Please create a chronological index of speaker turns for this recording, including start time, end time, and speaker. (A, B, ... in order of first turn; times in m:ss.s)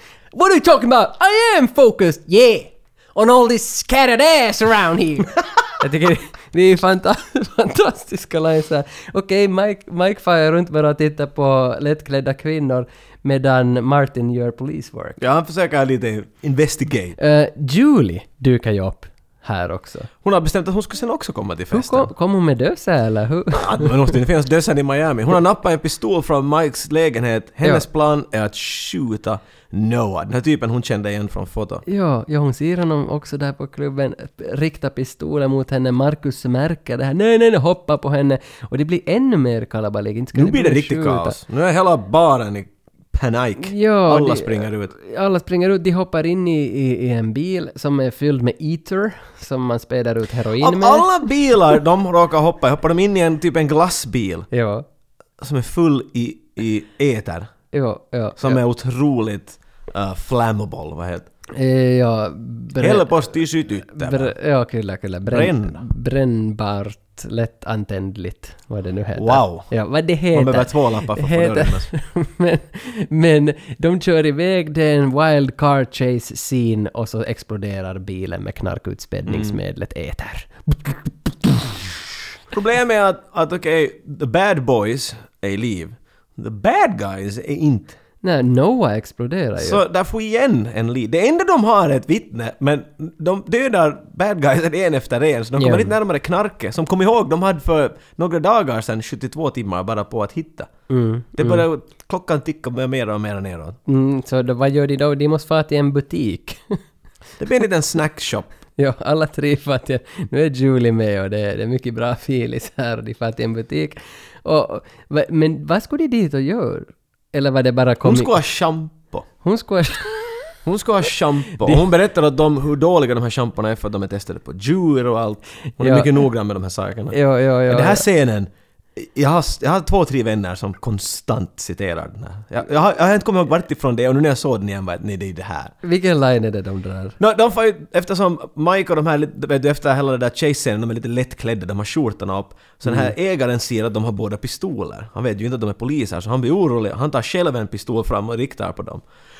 0:00.3-0:15.2 A
0:15.2-0:17.2 B
0:17.2-0:20.1 A
0:20.2-0:22.1 B
0:21.7-0:24.1 A
0:23.6-0:31.8 B
0:31.9-0:41.4 A
0:40.4-0:44.9 B
0:43.7-0:51.3 A
0:50.6-0:54.5 B
0:54.5-0:54.8 A
0:55.4-0:57.5 B
0:57.7-0:58.6 A
0:58.4-1:01.3 B
1:01.6-1:03.3 A
1:02.8-1:04.3 B
1:04.0-1:21.8 A
1:05.3-1:05.8 B
1:09.2-1:09.7 B
1:10.3-1:11.9 B
1:19.3-1:19.6 B
1:22.5-1:28.0 B
1:28.2-1:29.8 A
1:29.6-1:40.7 B
1:35.6-1:36.0 A
1:40.9-1:41.6 A
1:41.4-1:43.8 B
1:43.9-1:46.8 A
1:47.4-1:48.5 B
1:48.8-1:58.4 A
1:58.0-1:59.2 B
1:59.4-2:00.4 A
2:00.6-2:07.2 B
2:05.8-2:06.3 A
2:07.1-2:08.0 A
2:07.7-2:15.8 B
2:15.8-2:17.2 A
2:17.2-2:29.0 B
2:22.9-2:23.1 A